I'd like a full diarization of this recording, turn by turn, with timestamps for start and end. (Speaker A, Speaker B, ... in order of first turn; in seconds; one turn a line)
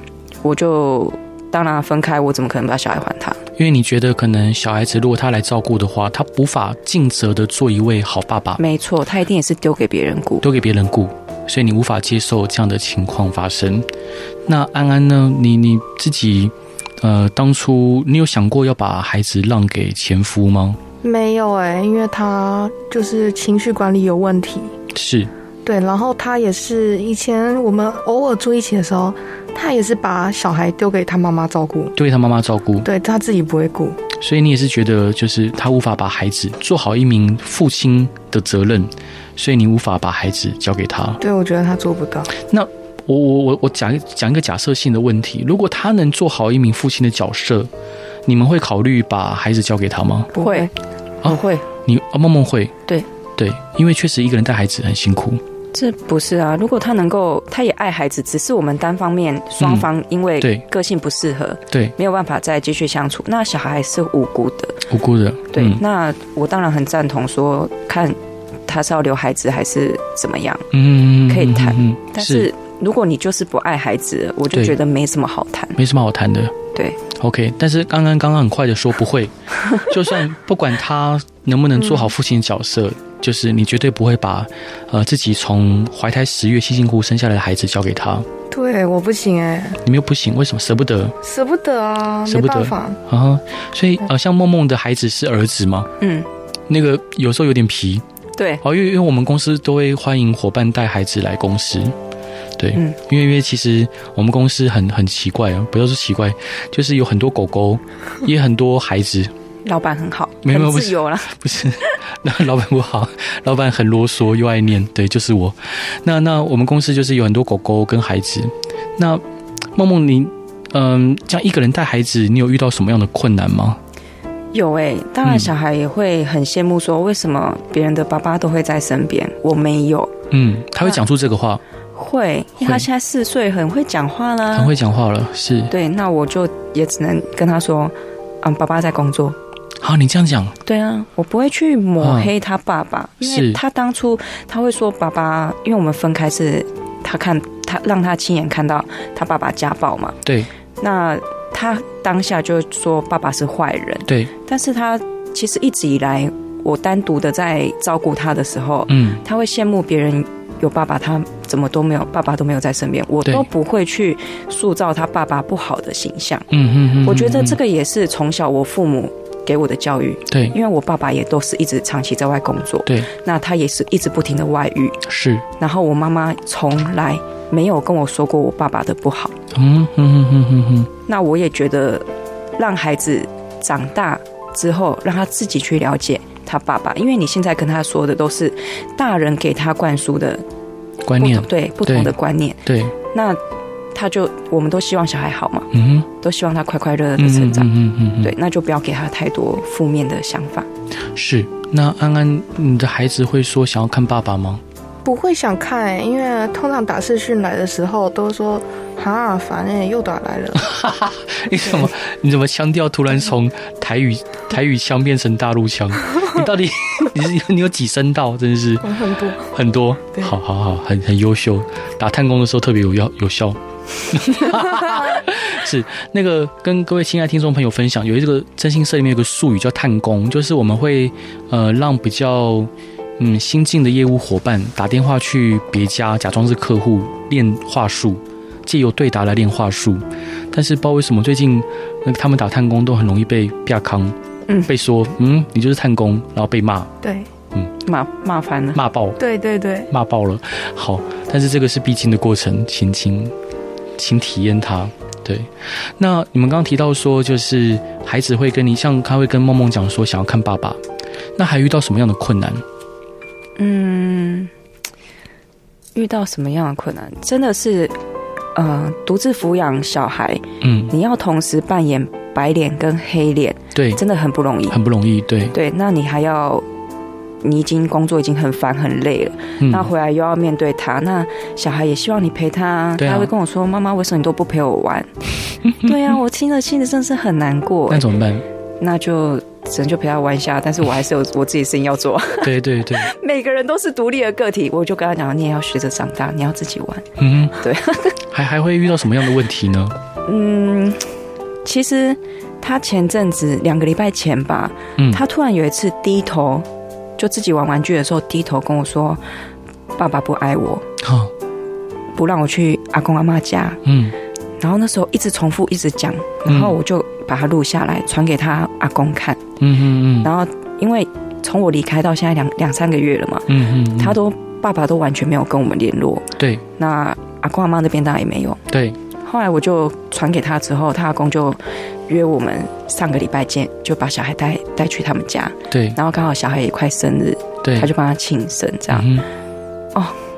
Speaker A: 0.4-3.4
Speaker B: 3.6-8.6
Speaker A: 8.6-10.4
Speaker B: 10.4-13.9
Speaker B: 14.5-20.8
Speaker C: 21.0-24.7
Speaker B: 24.9-25.3
Speaker C: 25.6-31.9
Speaker B: 31.9-32.9
Speaker C: 32.8-34.0
Speaker B: 34.1-41.2
Speaker C: 41.2-42.3
Speaker B: 42.4-47.7
Speaker B: 48.2-50.3
Speaker C: 50.3-50.7
Speaker A: 50.4-50.7
Speaker B: 51.2-52.7
Speaker A: 51.2-51.6
Speaker B: 53.4-55.4
Speaker A: 55.7-64.8
Speaker B: 59.6-60.6
Speaker B: 64.9-65.8
Speaker A: 65.5-70.7
Speaker B: 70.7-72.5
Speaker A: 71.3-75.8
Speaker B: 75.8-76.5
Speaker B: 77.1-88.3
Speaker C: 81.8-82.1
Speaker C: 88.5-89.8
Speaker B: 89.8-91.2
Speaker C: 91.2-93.0
Speaker B: 92.3-95.9
Speaker A: 96.0-96.3
Speaker B: 96.7-98.0
Speaker A: 98.4-98.6
Speaker B: 98.6-101.9
Speaker B: 102.6-109.3
Speaker A: 109.6-111.4
Speaker B: 110.4-119.2
Speaker B: 119.8-123.8
Speaker A: 124.5-130.1
Speaker B: 125.2-125.5
Speaker B: 130.3-131.6
Speaker A: 131.9-134.7
Speaker B: 132.6-132.9
Speaker B: 134.5-135.7
Speaker A: 135.7-139.4
Speaker B: 139.8-140.6
Speaker A: 140.6-150.2
Speaker B: 142.0-142.3
Speaker B: 143.2-143.6
Speaker A: 150.8-166.5
Speaker B: 158.9-159.2
Speaker B: 166.5-167.6
Speaker A: 167.0-175.0
Speaker B: 170.3-170.5
Speaker B: 175.0-175.4
Speaker A: 175.6-179.3
Speaker B: 179.5-180.9
Speaker A: 181.1-182.1
Speaker A: 182.6-190.4
Speaker B: 191.0-192.1
Speaker A: 191.2-193.4
Speaker B: 192.7-192.9
Speaker A: 193.9-200.7
Speaker B: 195.7-196.1
Speaker B: 197.2-198.3
Speaker B: 201.1-204.6
Speaker C: 205.0-210.7
Speaker B: 210.5-246.9
Speaker C: 218.8-219.5
Speaker C: 247.0-247.3
Speaker A: 247.8-248.8
Speaker B: 248.7-249.2
Speaker C: 249.2-249.9
Speaker B: 249.9-253.3
Speaker B: 254.0-260.8
Speaker B: 261.4-262.6
Speaker A: 263.6-264.5
Speaker A: 265.9-267.9
Speaker A: 268.5-274.8
Speaker B: 270.6-270.9
Speaker B: 273.7-274.0
Speaker B: 274.7-275.5
Speaker A: 275.5-276.6
Speaker A: 277.4-285.1
Speaker B: 279.6-279.9
Speaker B: 283.0-283.3
Speaker A: 285.7-288.1
Speaker B: 287.9-288.4
Speaker A: 288.8-298.2
Speaker B: 292.4-293.1
Speaker B: 297.2-297.6
Speaker B: 298.3-299.9
Speaker A: 300.2-306.6
Speaker A: 307.2-309.2
Speaker A: 309.9-310.8
Speaker B: 311.0-311.3
Speaker A: 312.1-313.8
Speaker B: 313.8-314.1
Speaker A: 314.6-319.4
Speaker B: 316.4-316.7
Speaker B: 319.6-320.3
Speaker A: 320.2-328.6
Speaker B: 323.5-324.2
Speaker B: 328.7-329.0
Speaker A: 329.2-339.2
Speaker B: 335.7-336.0
Speaker B: 337.6-337.9
Speaker B: 338.9-339.2